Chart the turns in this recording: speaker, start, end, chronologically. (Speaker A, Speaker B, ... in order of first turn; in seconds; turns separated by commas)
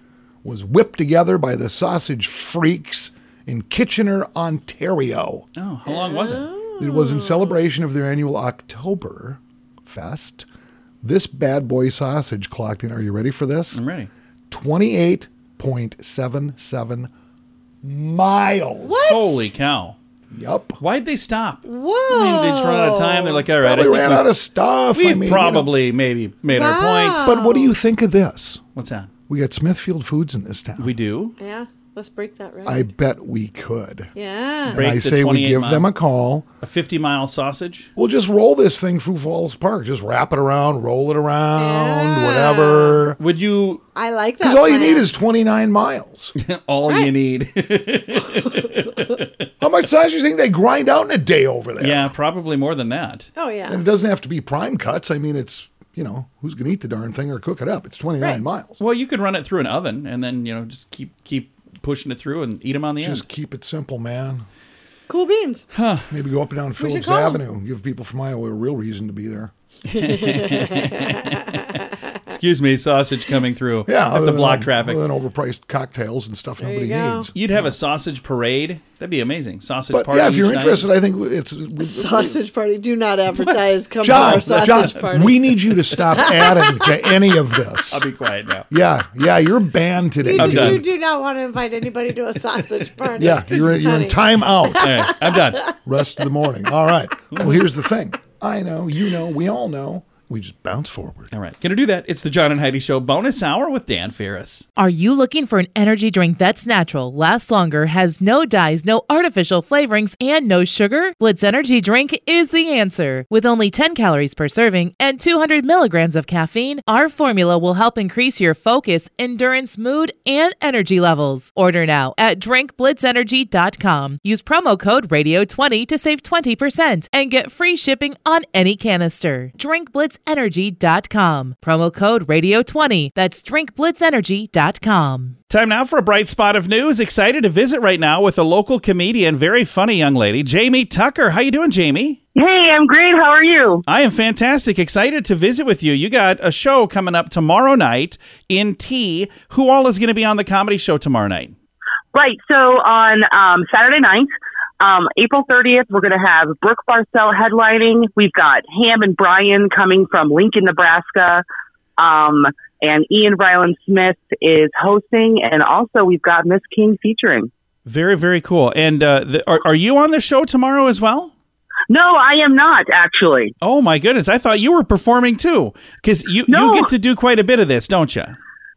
Speaker A: 0.4-5.5, Speaker B: 5.6-6.5, Speaker C: 5.9-7.6, Speaker A: 6.8-10.5, Speaker A: 11.0-13.8, Speaker B: 13.7-14.1, Speaker A: 14.5-17.1, Speaker A: 17.8-19.0, Speaker C: 18.8-19.5, Speaker B: 19.0-20.0, Speaker A: 20.3-20.8, Speaker B: 20.8-24.3, Speaker C: 21.6-23.5, Speaker A: 23.6-25.7, Speaker B: 24.9-27.3, Speaker C: 26.5-27.7, Speaker A: 27.2-28.6, Speaker B: 28.8-29.1, Speaker A: 29.3-30.9, Speaker B: 30.8-31.4, Speaker C: 31.4-32.9, Speaker A: 32.6-34.1, Speaker C: 34.1-34.8, Speaker A: 34.7-36.5, Speaker B: 34.7-35.9, Speaker B: 36.6-37.9, Speaker A: 38.0-43.2, Speaker C: 41.6-43.0, Speaker B: 43.2-43.8, Speaker C: 44.0-45.1, Speaker A: 44.4-46.4, Speaker B: 46.4-49.5, Speaker C: 48.4-48.9, Speaker A: 49.6-52.1, Speaker B: 51.8-53.3, Speaker C: 53.4-53.8, Speaker A: 53.7-58.8, Speaker B: 58.8-63.2, Speaker A: 63.0-64.5, Speaker C: 65.1-65.7, Speaker B: 65.7-66.1, Speaker A: 66.1-69.5, Speaker C: 66.8-67.4, Speaker B: 69.9-75.0, Speaker C: 69.9-71.8, Speaker A: 73.9-77.7, Speaker C: 76.6-77.3, Speaker B: 77.3-80.9, Speaker A: 79.9-82.4, Speaker C: 81.8-87.0, Speaker B: 83.3-85.0, Speaker A: 84.0-88.0, Speaker B: 87.9-88.7, Speaker A: 88.7-90.8, Speaker C: 90.2-95.8, Speaker B: 90.4-90.8, Speaker A: 93.2-94.9, Speaker B: 94.8-95.7, Speaker A: 95.8-101.3, Speaker B: 97.3-97.6, Speaker B: 101.3-104.7, Speaker D: 104.8-135.4, Speaker B: 135.5-142.2, Speaker E: 142.3-143.8, Speaker B: 143.9-151.6, Speaker E: 152.1-154.3, Speaker E: 154.8-161.4, Speaker E: 162.0-167.5, Speaker B: 167.9-171.3, Speaker E: 171.9-173.5, Speaker B: 173.6-178.4, Speaker E: 176.5-176.9